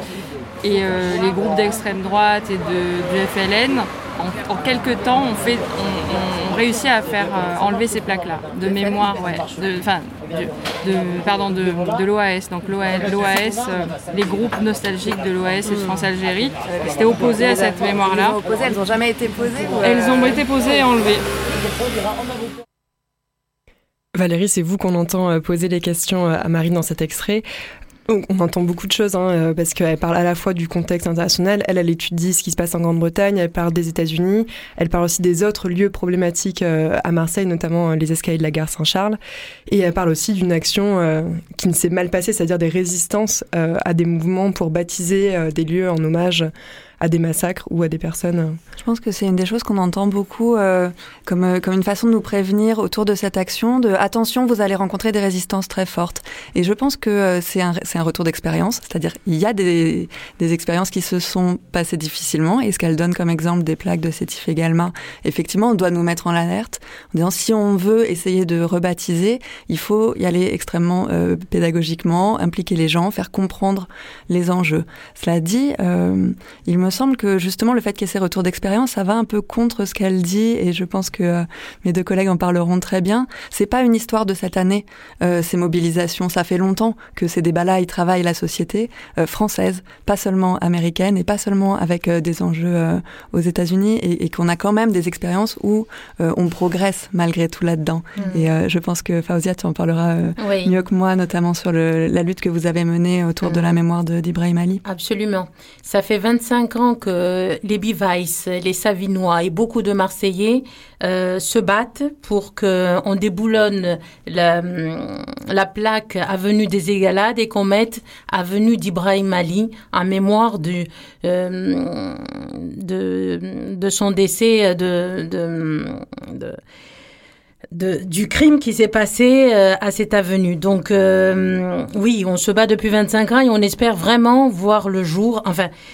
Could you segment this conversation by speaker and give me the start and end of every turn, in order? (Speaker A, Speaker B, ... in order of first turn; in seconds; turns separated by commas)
Speaker A: 0.6-18.4, Speaker B: 16.6-20.4, Speaker A: 19.8-21.2, Speaker C: 24.1-27.4, Speaker C: 28.1-48.6, Speaker D: 48.8-104.8, Speaker E: 98.2-98.5, Speaker E: 100.4-100.7, Speaker E: 104.8-126.6, Speaker E: 127.7-135.7